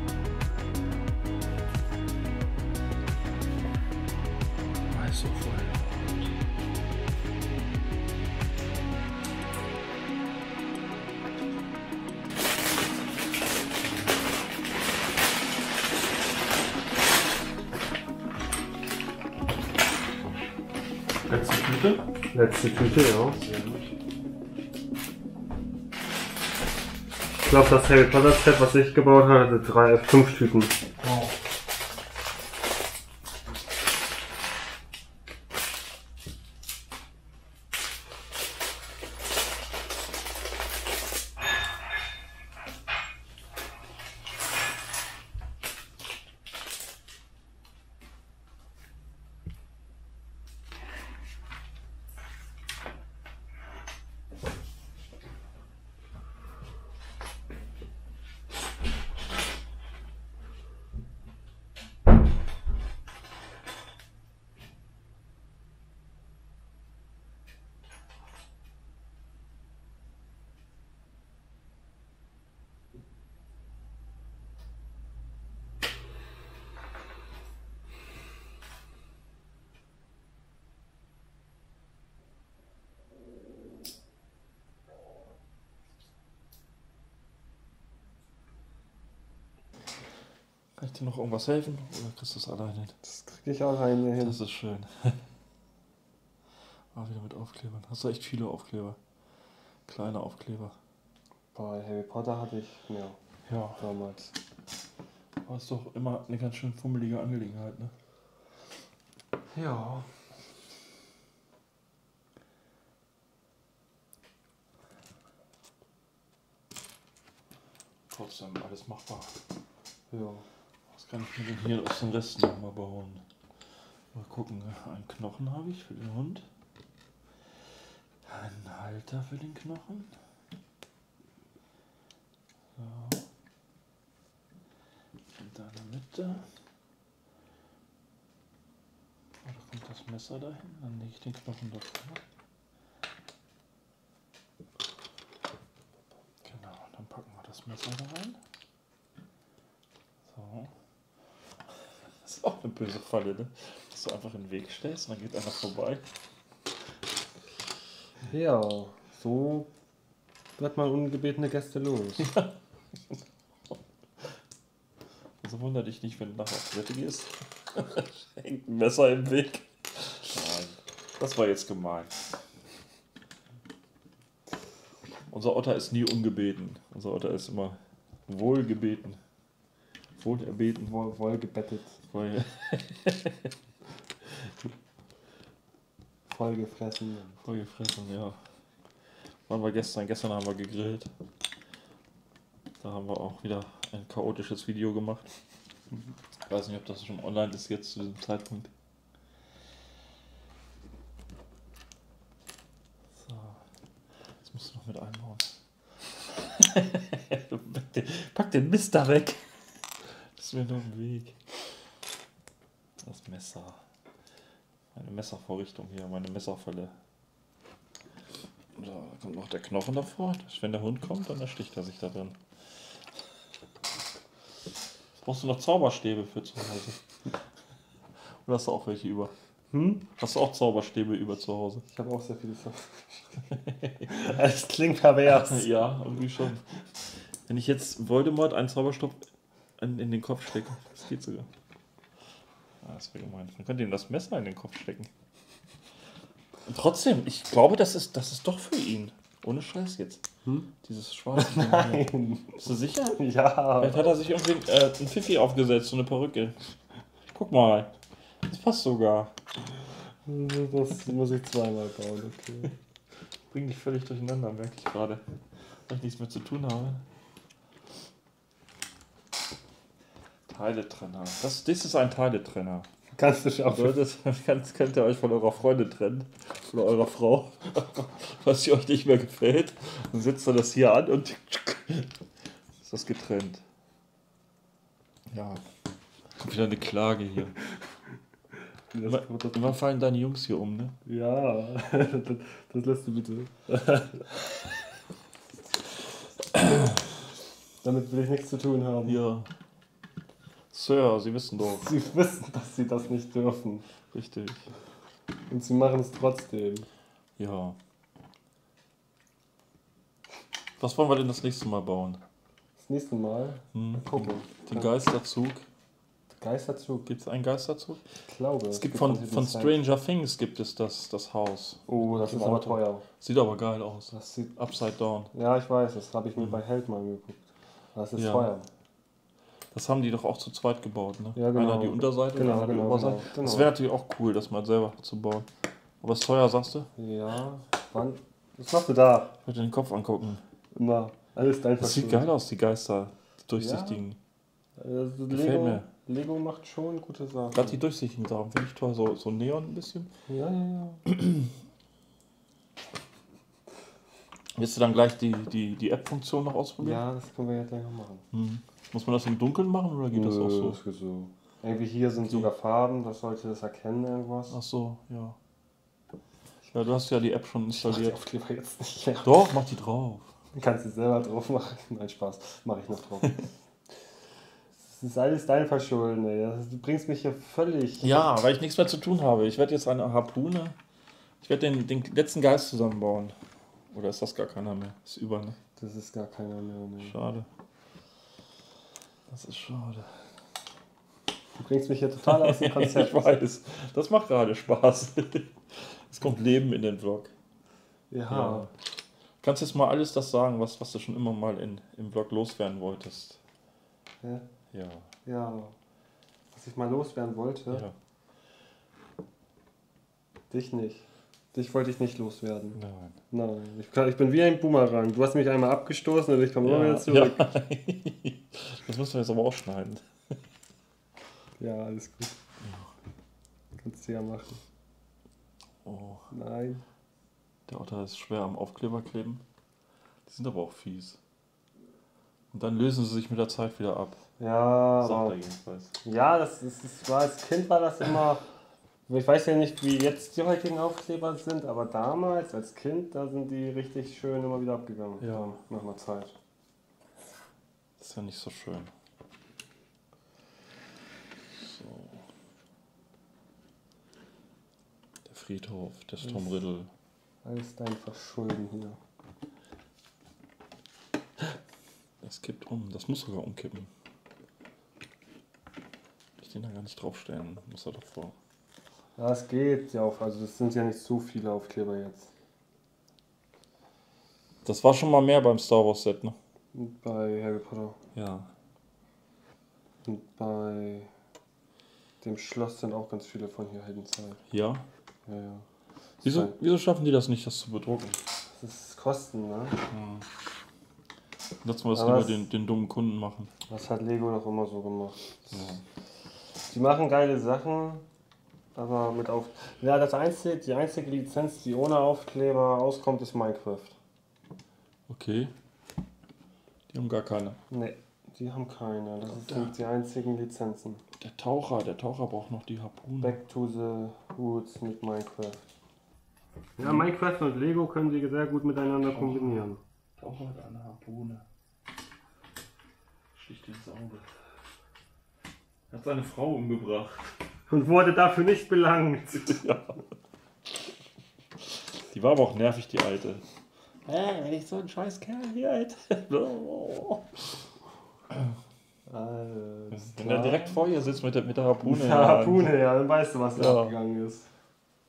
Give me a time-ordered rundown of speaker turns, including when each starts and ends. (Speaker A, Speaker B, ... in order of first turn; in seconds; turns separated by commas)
Speaker A: 4.6-6.3, Speaker A: 21.2-22.1, Speaker B: 22.3-23.4, Speaker A: 22.9-23.9, Speaker B: 27.4-30.8, Speaker A: 31.0-31.3, Speaker A: 90.8-93.0, Speaker B: 93.0-94.4, Speaker A: 94.2-95.2, Speaker A: 96.9-99.0, Speaker A: 99.9-100.8, Speaker B: 101.5-103.2, Speaker A: 103.5-103.8, Speaker B: 103.8-104.3, Speaker A: 105.4-107.9, Speaker B: 109.5-110.1, Speaker A: 118.1-119.4, Speaker B: 120.1-120.4, Speaker A: 120.9-123.2, Speaker A: 124.1-126.5, Speaker A: 128.2-130.1, Speaker A: 132.8-133.2, Speaker A: 135.3-136.5, Speaker A: 139.4-142.2, Speaker A: 146.4-148.4, Speaker A: 150.2-150.7, Speaker A: 152.2-156.0, Speaker B: 158.3-159.7, Speaker B: 160.6-162.3, Speaker A: 162.2-162.5, Speaker A: 165.4-172.1, Speaker A: 175.3-179.2, Speaker A: 180.2-180.9, Speaker B: 180.8-182.0, Speaker A: 182.1-183.5, Speaker B: 186.3-187.4, Speaker A: 187.4-188.4, Speaker A: 189.5-191.1, Speaker A: 192.8-195.3, Speaker A: 196.4-198.7, Speaker A: 203.2-203.6, Speaker A: 204.4-205.6, Speaker A: 206.1-211.4, Speaker A: 213.0-213.8, Speaker A: 214.9-216.9, Speaker A: 218.7-222.4, Speaker A: 225.2-227.4, Speaker A: 228.2-229.3, Speaker B: 229.7-230.1, Speaker A: 230.2-231.8, Speaker B: 231.9-233.4, Speaker B: 234.0-235.7, Speaker A: 235.2-236.7, Speaker A: 237.4-239.2, Speaker A: 239.8-241.5, Speaker A: 242.8-245.1, Speaker A: 246.7-250.2, Speaker B: 250.4-250.7, Speaker A: 250.8-253.2, Speaker B: 251.3-254.2, Speaker A: 253.8-256.7, Speaker A: 257.3-257.9, Speaker A: 258.5-259.3, Speaker B: 260.2-262.7, Speaker A: 263.5-267.0, Speaker A: 270.5-272.9, Speaker B: 273.1-274.2, Speaker A: 273.6-282.1, Speaker A: 282.8-283.6, Speaker A: 285.3-285.6, Speaker A: 286.4-287.6, Speaker B: 288.9-289.8, Speaker A: 289.0-291.0, Speaker B: 291.0-294.3, Speaker B: 297.8-299.2, Speaker A: 299.1-299.5, Speaker A: 300.7-301.9, Speaker B: 301.7-303.9, Speaker A: 304.1-304.7, Speaker B: 305.5-306.9, Speaker A: 307.4-307.8, Speaker A: 310.8-312.2, Speaker B: 312.8-314.9, Speaker A: 313.7-315.6, Speaker B: 316.3-317.1, Speaker A: 317.1-318.0, Speaker B: 318.2-319.8, Speaker A: 318.7-325.3, Speaker B: 321.9-323.0, Speaker B: 324.1-324.5, Speaker B: 325.3-327.4, Speaker B: 327.9-328.7, Speaker A: 328.2-328.5, Speaker A: 329.7-335.5, Speaker B: 331.3-333.7, Speaker A: 336.0-336.9, Speaker B: 337.0-339.3, Speaker A: 339.4-340.4, Speaker B: 340.7-342.3, Speaker A: 341.8-344.2, Speaker B: 343.6-344.0, Speaker B: 344.8-347.8, Speaker A: 345.3-345.9, Speaker A: 347.5-350.1, Speaker B: 350.3-351.1, Speaker A: 354.5-357.0, Speaker B: 356.8-358.2, Speaker A: 358.3-360.8, Speaker B: 360.1-364.6, Speaker A: 362.2-362.5, Speaker A: 364.5-365.4, Speaker A: 366.7-368.2, Speaker B: 367.7-369.5, Speaker A: 369.2-370.3, Speaker B: 370.5-373.5, Speaker B: 374.8-378.2, Speaker A: 378.0-380.8, Speaker A: 381.4-383.4, Speaker A: 383.9-385.6, Speaker B: 385.8-387.2, Speaker A: 387.0-387.5, Speaker A: 389.3-390.3, Speaker B: 391.6-393.4, Speaker A: 392.2-397.3, Speaker B: 398.1-398.7, Speaker A: 398.3-398.7, Speaker A: 399.4-403.4, Speaker A: 404.7-405.1, Speaker B: 405.2-405.7, Speaker B: 406.5-407.9, Speaker B: 410.5-412.8, Speaker A: 412.7-413.2, Speaker B: 413.3-417.5, Speaker A: 416.6-420.4, Speaker B: 421.6-422.4, Speaker A: 422.6-422.9, Speaker B: 423.8-424.6, Speaker A: 425.8-426.3, Speaker B: 426.3-426.8, Speaker A: 427.7-429.4, Speaker A: 430.2-431.2, Speaker A: 432.5-434.2, Speaker B: 434.4-435.4, Speaker A: 435.0-435.9, Speaker B: 436.0-438.4, Speaker B: 439.1-446.3, Speaker A: 445.2-445.6, Speaker A: 448.0-448.9, Speaker A: 451.5-452.2, Speaker A: 455.2-456.9, Speaker B: 457.4-459.0, Speaker A: 462.2-463.9, Speaker A: 466.4-468.3, Speaker B: 469.2-472.3, Speaker A: 474.6-476.4, Speaker B: 476.7-478.0, Speaker A: 478.1-478.5, Speaker B: 480.0-481.1, Speaker B: 482.2-484.4, Speaker A: 484.5-484.9, Speaker B: 485.2-485.6, Speaker A: 486.2-488.2, Speaker B: 486.2-486.5, Speaker B: 488.5-489.8, Speaker A: 489.9-490.2, Speaker A: 491.6-493.5, Speaker B: 491.9-492.4, Speaker B: 493.7-495.8, Speaker A: 495.5-495.8, Speaker B: 496.7-498.1, Speaker B: 498.7-504.0, Speaker A: 505.1-505.5, Speaker A: 506.9-507.6, Speaker B: 507.7-511.0, Speaker A: 509.3-509.7, Speaker A: 511.2-513.4, Speaker B: 513.2-515.6, Speaker B: 516.8-519.8, Speaker A: 519.1-521.4, Speaker A: 523.3-524.2, Speaker A: 525.9-527.3, Speaker B: 527.7-529.6, Speaker A: 529.3-530.0, Speaker A: 532.0-533.4, Speaker A: 534.0-537.4, Speaker B: 539.1-540.8, Speaker A: 539.9-542.7, Speaker B: 541.8-544.5, Speaker A: 543.5-543.9